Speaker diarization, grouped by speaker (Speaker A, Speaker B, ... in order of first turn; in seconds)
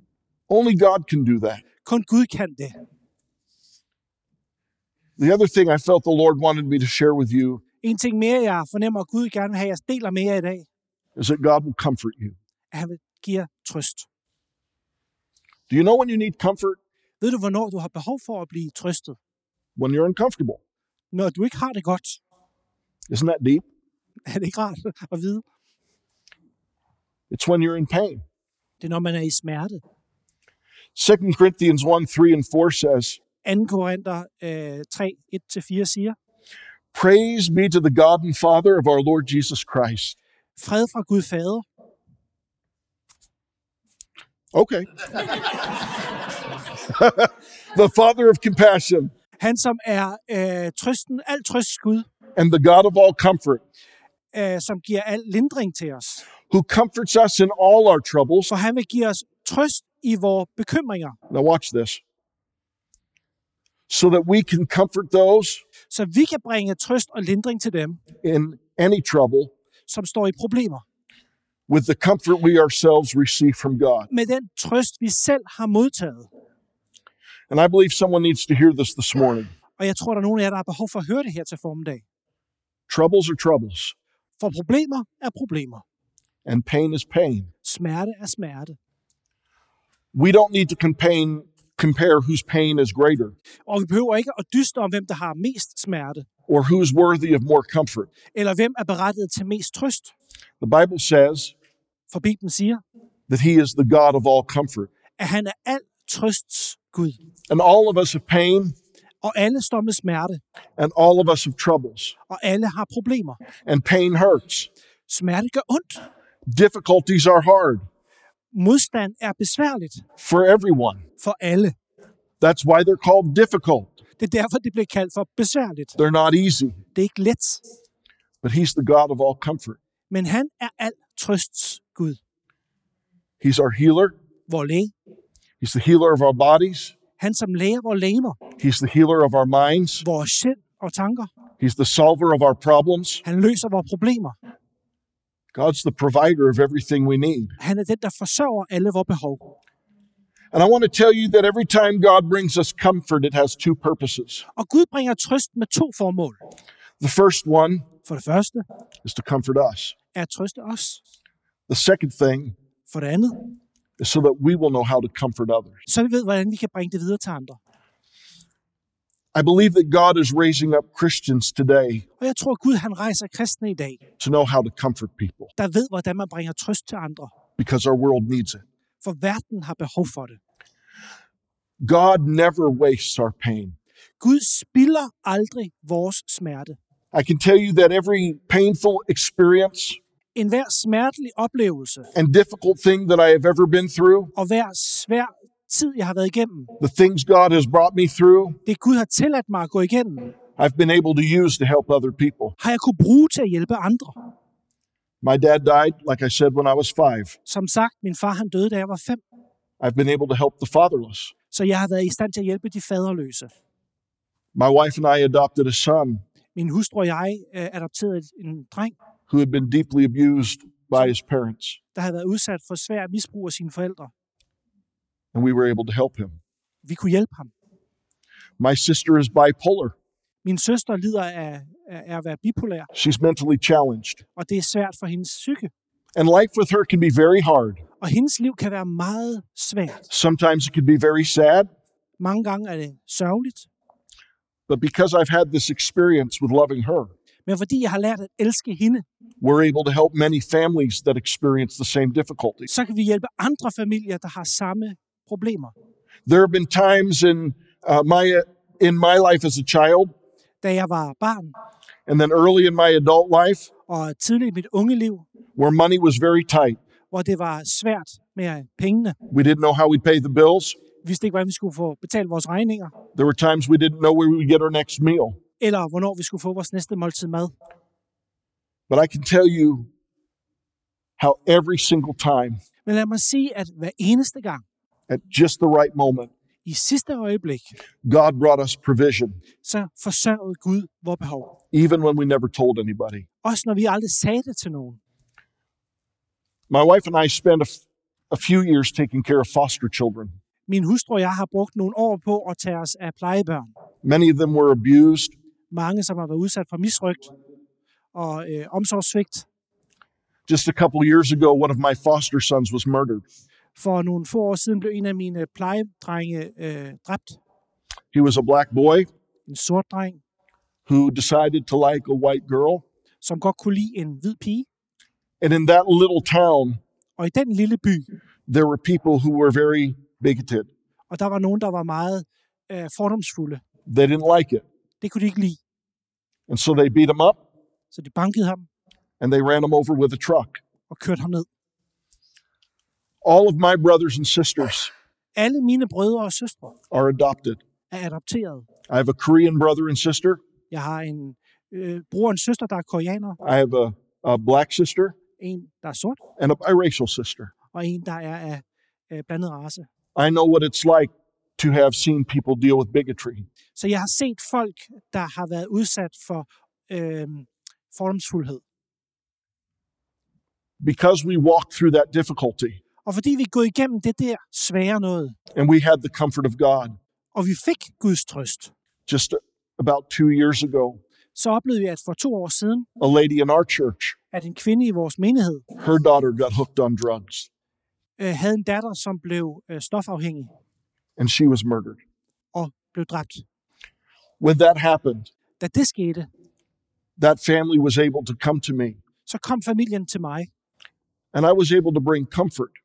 Speaker A: 0.5-1.6, 5.2-7.6, 11.2-12.3, 15.7-16.8, 19.8-20.6, 23.1-23.6, 27.3-28.2, 30.9-33.2, 36.9-40.1, 44.5-45.0, 46.8-49.1, 52.4-53.6, 56.5-58.5, 61.3-62.0, 63.9-65.6, 68.2-69.5, 71.7-74.1, 77.5-79.5, 82.9-83.9, 86.4-87.5, 90.1-93.3, 96.5-98.1, 100.6-101.5, 103.3-104.9, 107.5-108.7, 110.8-112.1, 113.7-114.7, 116.5-117.8, 120.2-121.0, 122.4-124.0, 126.0-126.8, 128.4-129.8, 133.4-134.1, 135.6-136.9, 138.6-140.0, 141.6-143.2, 145.5-147.6, 150.5-154.4, 157.0-157.9, 159.0-159.9, 161.7-162.5, 164.0-165.8, 169.3-172.0, 174.2-175.5, 177.6-178.6, 181.8-183.7, 187.1-190.0, 192.1-194.3, 196.8-198.6, 200.6-202.6, 205.2-207.4, 209.8-211.3, 214.5-216.2, 219.3-221.8, 225.3-226.4, 228.6-229.9, 232.9-234.2, 236.2-237.8, 240.1-241.7, 244.7-247.1, 249.4-252.7, 256.2-260.1, 262.1-263.7, 265.6-266.8, 269.3-270.8, 273.1-275.4, 278.9-279.9, 281.2-282.6, 285.1-286.3, 288.0-289.4, 291.7-293.2, 296.7-297.8, 298.3-300.3, 304.0-305.3, 310.5-313.2, 318.1-319.1, 320.9-322.8, 325.4-326.8, 328.5-330.7, 333.9-334.6, 336.5-337.4, 339.2-340.6, 343.2-344.9, 346.9-347.6, 348.9-350.4, 353.4-355.1, 356.4-357.5, 360.1-363.4, 370.8-372.8, 375.5-377.0, 379.1-381.0, 383.0-384.1, 385.8-387.5, 391.2-392.0, 394.4-395.3, 397.2-399.0, 401.3-402.8
Speaker B: 1.8-2.8, 7.8-10.7, 12.7-14.1, 17.2-19.2, 21.1-22.2, 24.3-25.4, 28.8-29.8, 33.4-36.2, 40.6-41.6, 49.4-52.1, 54.3-56.2, 58.5-61.1, 65.9-68.0, 69.9-70.8, 74.1-76.3, 79.8-82.0, 84.4-85.8, 87.6-88.8, 93.7-96.2, 98.3-100.1, 102.1-102.8, 105.2-107.2, 109.2-110.4, 112.3-113.4, 115.1-116.0, 118.5-120.0, 121.2-121.7, 124.2-126.0, 126.9-127.6, 130.1-132.2, 134.5-134.9, 137.2-138.4, 140.0-141.3, 143.2-144.3, 147.6-149.5, 154.5-156.4, 158.0-158.6, 160.1-161.0, 162.9-163.4, 165.8-167.6, 172.2-174.0, 175.6-177.3, 179.0-180.4, 184.2-186.8, 190.3-192.1, 194.3-196.7, 198.7-200.3, 202.6-204.2, 207.4-209.2, 211.5-213.5, 216.5-218.9, 221.9-224.1, 226.8-227.5, 230.4-232.9, 234.3-235.7, 238.0-240.1, 242.2-243.7, 247.4-249.0, 252.7-255.7, 260.6-261.5, 263.9-265.2, 267.1-269.1, 271.0-272.9, 275.6-277.5, 282.8-284.6, 286.6-287.7, 289.6-291.5, 293.4-295.0, 300.7-303.7, 305.7-307.3, 308.1-309.4, 313.8-317.4, 319.5-320.2, 323.2-324.7, 327.2-328.1, 331.1-333.6, 335.0-335.6, 337.9-338.7, 340.9-341.5, 345.4-346.7, 347.9-348.6, 350.7-353.4, 355.4-356.2, 357.7-359.9, 363.8-368.6, 373.0-375.4, 377.3-378.7, 381.3-382.9, 384.3-385.6, 388.2-390.5, 392.5-393.4, 395.6-396.3, 399.2-400.5